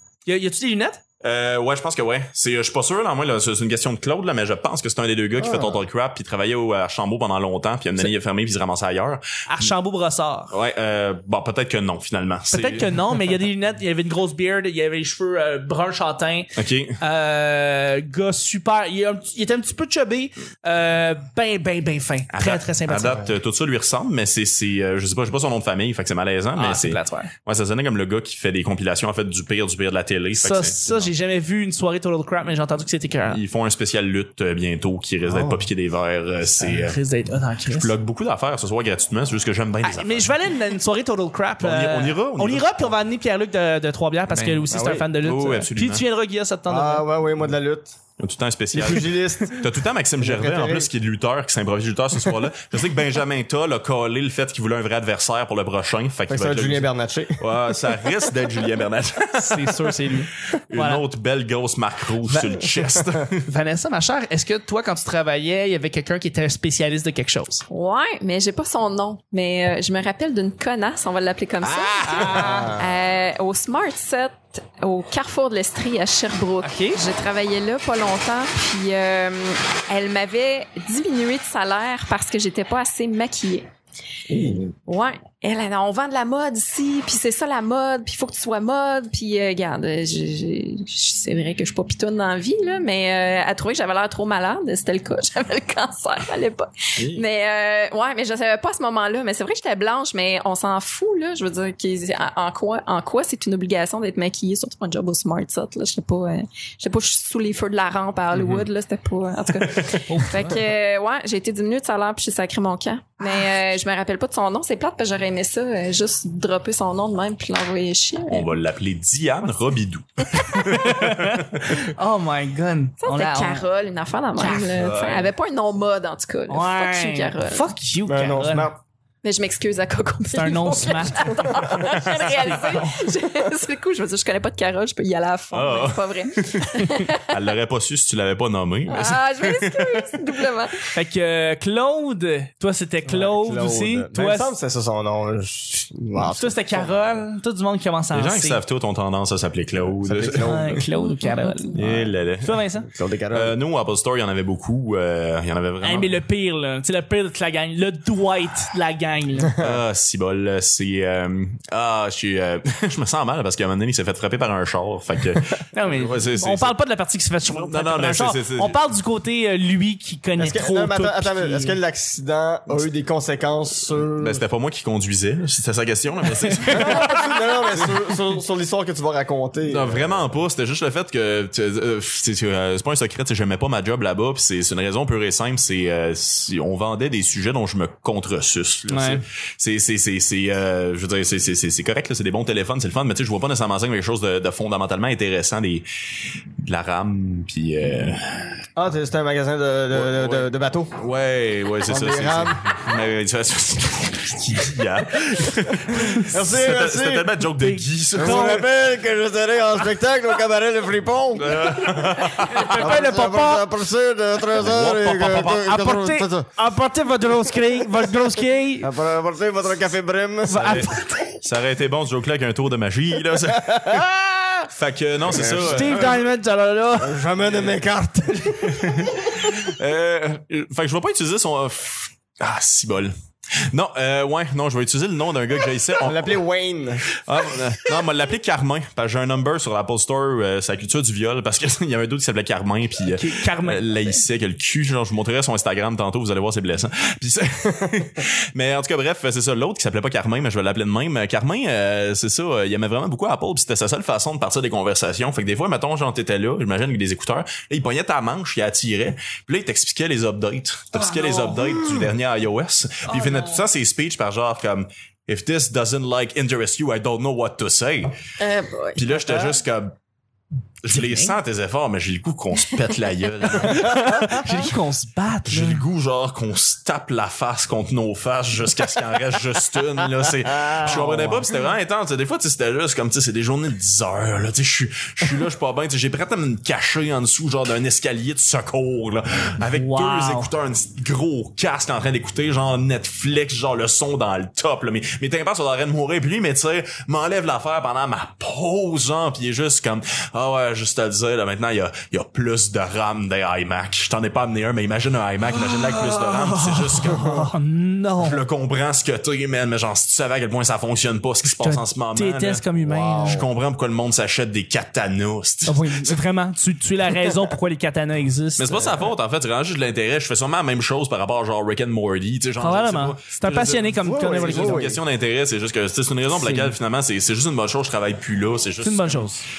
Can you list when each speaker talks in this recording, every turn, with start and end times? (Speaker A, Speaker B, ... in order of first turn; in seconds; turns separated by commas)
Speaker A: 0.3-1.0, Speaker B: 1.2-9.7, Speaker C: 5.4-5.8, Speaker A: 9.5-10.5, Speaker B: 10.5-12.9, Speaker A: 12.5-23.2, Speaker B: 16.6-17.0, Speaker B: 22.3-31.1, Speaker A: 26.6-27.3, Speaker A: 30.4-33.4, Speaker B: 33.3-37.0, Speaker C: 35.3-35.7, Speaker A: 36.6-37.9, Speaker B: 37.7-40.3, Speaker A: 39.8-47.0, Speaker B: 41.6-42.7, Speaker B: 44.3-46.0, Speaker C: 44.7-45.1, Speaker C: 46.7-48.0, Speaker B: 48.2-63.4, Speaker C: 48.7-49.6, Speaker C: 50.2-50.9, Speaker C: 56.3-57.4, Speaker A: 59.3-61.0, Speaker A: 62.3-62.6, Speaker A: 63.5-67.7, Speaker D: 67.7-83.7, Speaker A: 71.6-72.7, Speaker C: 72.2-73.0, Speaker A: 76.6-77.0, Speaker C: 84.3-84.7, Speaker D: 84.9-118.5, Speaker B: 97.0-97.2, Speaker B: 108.3-108.7, Speaker A: 110.1-110.5, Speaker B: 118.3-121.8, Speaker A: 120.5-123.7, Speaker D: 123.0-127.7, Speaker A: 124.4-124.7, Speaker B: 124.8-125.3, Speaker A: 126.5-128.7, Speaker C: 128.1-128.8, Speaker D: 129.2-137.2, Speaker A: 130.3-132.9, Speaker B: 135.5-140.1, Speaker D: 138.9-140.8, Speaker A: 140.9-144.5, Speaker C: 143.1-147.2, Speaker A: 146.3-148.6, Speaker B: 148.1-150.8, Speaker C: 150.0-150.9, Speaker A: 150.4-152.9, Speaker D: 151.0-151.8, Speaker B: 151.7-152.6, Speaker C: 152.8-153.6, Speaker B: 153.3-156.2, Speaker A: 155.8-159.5, Speaker B: 159.6-166.8, Speaker A: 165.7-171.8, Speaker B: 167.5-168.8, Speaker C: 170.4-174.4, Speaker B: 174.2-177.9, Speaker C: 176.7-180.3, Speaker B: 179.7-195.9, Speaker A: 188.9-189.2, Speaker B: 196.6-198.6, Speaker C: 198.8-200.9, Speaker B: 199.9-208.6, Speaker C: 201.9-202.6, Speaker C: 206.2-207.3, Speaker A: 207.6-208.7, Speaker C: 208.2-216.5, Speaker B: 211.4-212.9, Speaker A: 212.6-213.7, Speaker B: 214.6-215.5, Speaker A: 215.3-218.9, Speaker C: 218.8-220.9, Speaker A: 220.5-221.3, Speaker B: 220.5-220.9, Speaker B: 221.4-224.1, Speaker C: 223.6-224.6, Speaker B: 224.7-226.2, Speaker C: 225.3-226.2, Speaker A: 225.6-227.3, Speaker C: 227.0-229.1, Speaker B: 228.8-233.1, Speaker B: 233.7-236.4, Speaker C: 236.0-237.0, Speaker B: 237.2-268.1, Speaker A: 243.0-244.2, Speaker A: 263.1-263.6, Speaker D: 268.4-269.0, Speaker B: 268.9-269.9, Speaker B: 270.8-274.7, Speaker A: 270.9-271.4, Speaker A: 273.5-275.8, Speaker B: 275.5-307.4, Speaker C: 280.7-281.4, Speaker A: 289.7-290.5, Speaker A: 305.6-308.4, Speaker B: 308.2-312.6, Speaker A: 311.5-313.4, Speaker C: 312.8-313.5, Speaker B: 313.2-316.1, Speaker A: 315.6-318.8, Speaker B: 318.6-329.3, Speaker C: 318.8-319.1, Speaker A: 322.6-324.9, Speaker C: 324.0-325.0, Speaker A: 326.3-326.7, Speaker A: 328.8-329.4